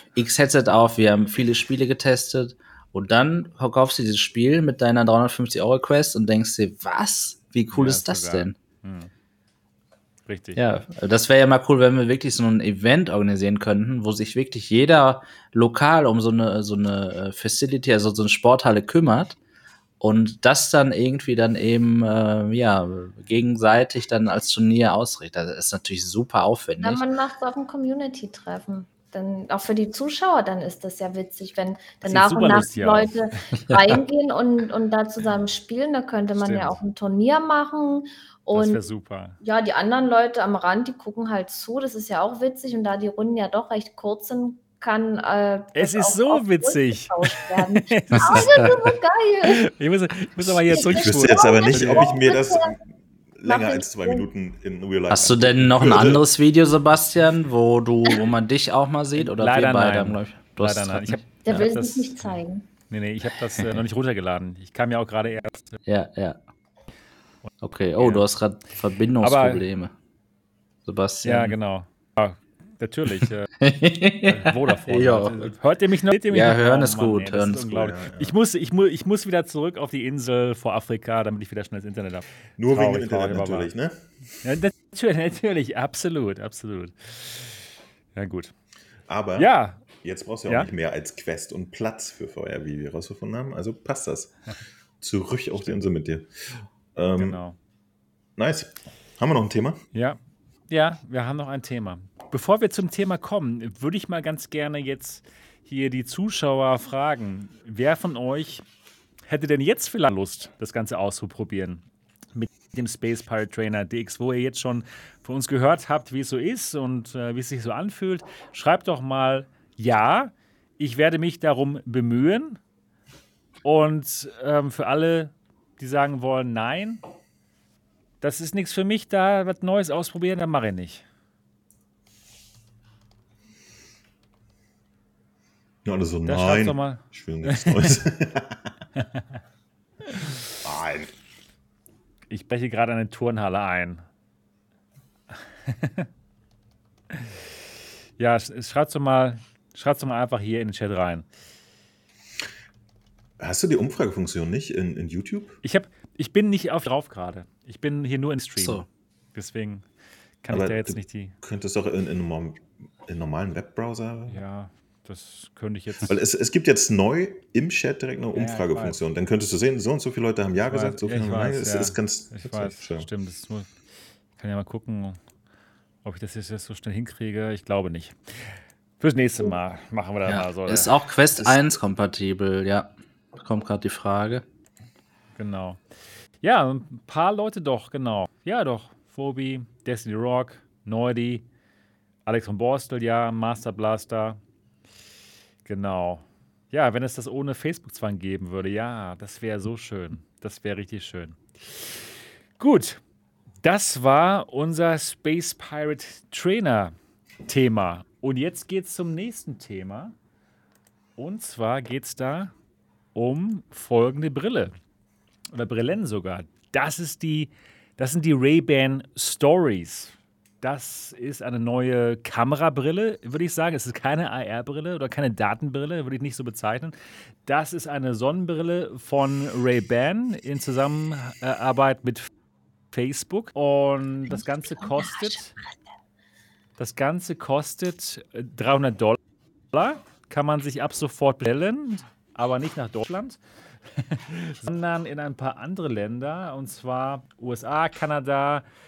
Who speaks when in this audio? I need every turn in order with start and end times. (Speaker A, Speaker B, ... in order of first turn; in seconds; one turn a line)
Speaker A: 0.1-8.6
Speaker B: 7.7-9.1
Speaker B: 10.2-10.6
Speaker A: 10.6-19.4
Speaker A: 20.0-27.0
Speaker C: 26.8-38.8
Speaker B: 32.0-33.1
Speaker A: 33.7-34.0
Speaker B: 36.4-36.8
Speaker B: 38.5-39.4
Speaker C: 39.4-49.6
Speaker B: 45.7-48.9
Speaker A: 48.2-48.7
Speaker B: 49.4-52.1
Speaker D: 50.7-52.9
Speaker C: 50.7-52.7
Speaker D: 53.4-56.2
Speaker C: 53.4-54.2
Speaker A: 55.1-61.7
Speaker B: 59.1-62.3
Speaker C: 61.5-62.6
Speaker B: 62.9-65.8
Speaker A: 65.8-66.4
Speaker A: 67.6-69.9
Speaker B: 68.0-68.2
Speaker B: 69.2-69.6
Speaker A: 70.8-71.5
Speaker B: 71.2-73.5
Speaker A: 73.6-75.5
Speaker B: 74.2-83.7
Speaker A: 76.3-77.7
Speaker D: 77.7-78.3
Speaker D: 82.6-84.0
Speaker B: 84.4-87.6
Speaker B: 88.1-88.5
Speaker D: 89.1-94.3
Speaker B: 89.4-89.8
Speaker D: 95.0-96.3
Speaker D: 97.0-97.4
Speaker B: 97.2-97.5
Speaker D: 98.4-99.8
Speaker B: 99.9-108.6
Speaker B: 109.3-122.6
Speaker B: 123.6-127.0
Speaker B: 128.2-131.0
Speaker D: 135.8-138.6
Speaker B: 136.2-137.9
Speaker B: 139.0-139.2
Speaker B: 140.1-140.3
Speaker D: 140.6-141.1
Speaker B: 142.3-144.0
Speaker B: 145.7-146.1
Speaker B: 148.2-151.2
Speaker D: 153.4-155.6
Speaker B: 155.6-159.8
Speaker A: 158.6-158.8
Speaker B: 160.4-161.3
Speaker D: 160.5-164.4
Speaker B: 164.3-166.1
Speaker D: 166.1-173.1
Speaker B: 168.3-169.0
Speaker B: 170.6-173.7
Speaker B: 174.4-175.2
Speaker B: 176.0-178.4
Speaker B: 179.0-180.9
Speaker A: 180.2-184.4
Speaker B: 185.3-185.8
Speaker B: 186.4-191.4
Speaker B: 192.2-194.4
Speaker B: 195.6-203.0
Speaker B: 203.6-206.9
Speaker B: 207.4-210.1
Speaker B: 211.2-212.5
Speaker B: 213.1-214.7
Speaker B: 215.5-226.9
Speaker B: 227.4-232.3
Speaker B: 232.9-235.5
Speaker C: 234.4-235.5
Speaker B: 236.8-239.2
Speaker B: 239.7-243.4
Speaker B: 244.0-248.6